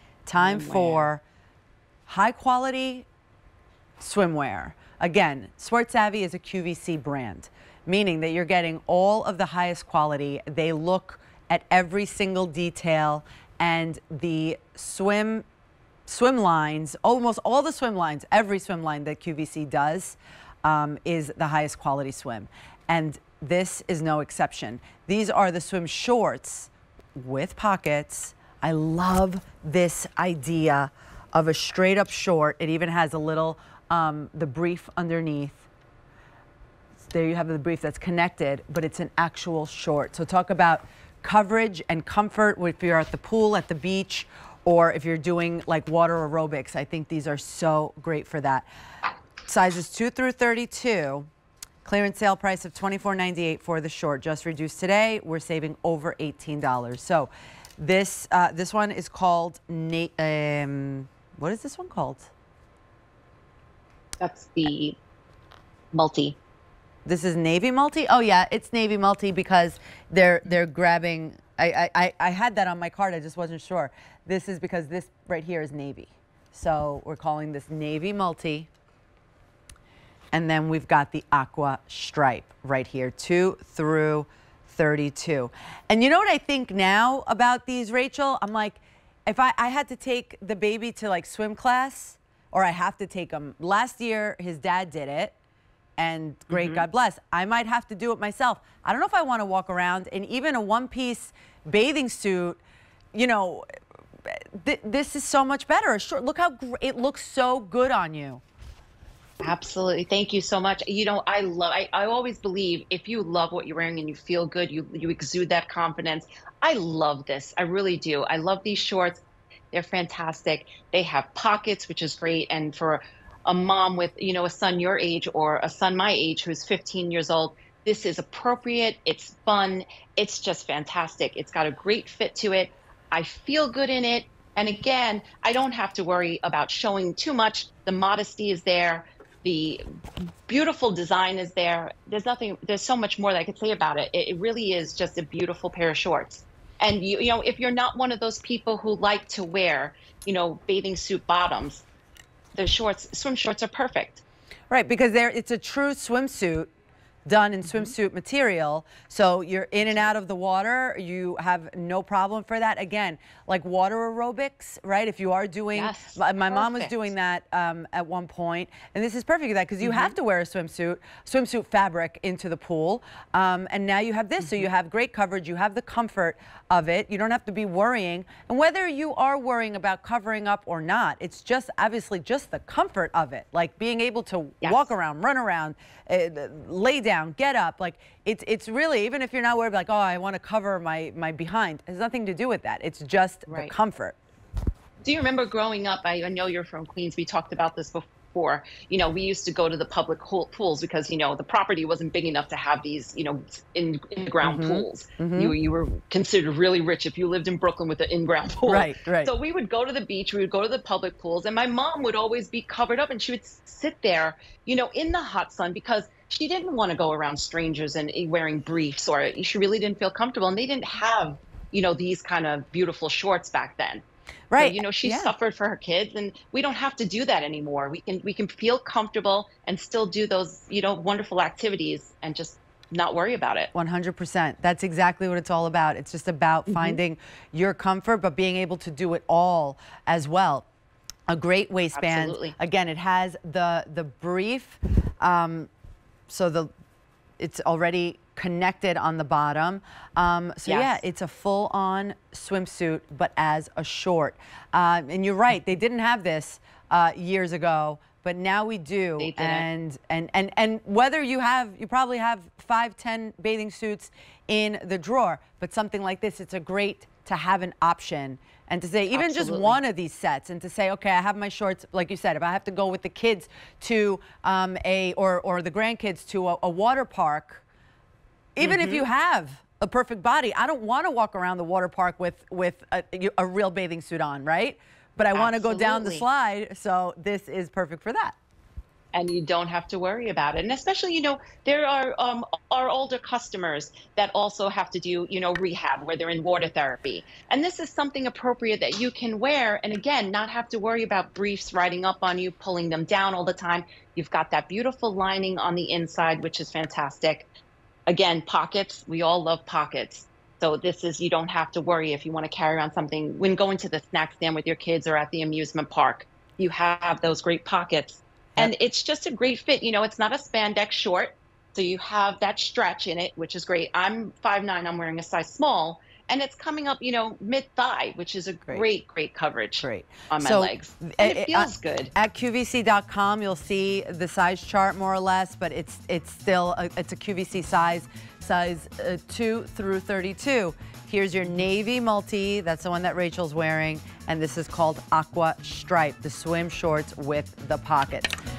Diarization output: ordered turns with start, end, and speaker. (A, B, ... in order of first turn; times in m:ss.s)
0:00.3-0:01.2 A
0:00.4-0:01.1 B
0:02.1-0:03.1 A
0:04.0-0:15.4 A
0:16.1-0:35.7 A
0:37.1-0:48.7 A
0:49.5-0:51.3 A
0:51.8-1:02.3 A
1:04.2-1:05.0 B
1:05.9-1:06.4 B
1:07.0-1:18.7 A
1:20.3-1:35.3 A
1:36.0-1:42.6 A
1:36.5-1:36.8 B
1:43.1-1:43.6 A
1:44.2-1:48.4 A
1:49.4-1:59.2 B
1:59.7-2:19.8 B
2:20.5-2:31.8 B
2:32.5-2:34.2 B
2:34.7-2:36.7 A
2:37.3-3:14.2 A
2:45.7-2:47.1 B
2:49.8-2:50.2 B
3:04.6-3:04.9 B
3:15.0-3:44.0 B
3:24.4-3:25.5 A
3:28.6-3:29.3 A
3:44.5-3:45.3 A
3:44.6-3:53.7 B
3:53.7-4:00.7 A
3:56.7-3:57.0 B
4:01.3-4:05.7 A
4:02.0-4:02.5 B
4:06.3-4:06.7 A
4:07.4-4:37.6 A
4:10.7-4:11.0 B
4:19.2-4:19.7 B
4:29.1-4:29.8 B
4:38.6-4:48.4 A
4:38.6-4:39.0 B
4:45.3-4:46.2 B
4:49.1-5:07.5 B
5:08.1-5:32.1 B
5:29.8-5:48.4 A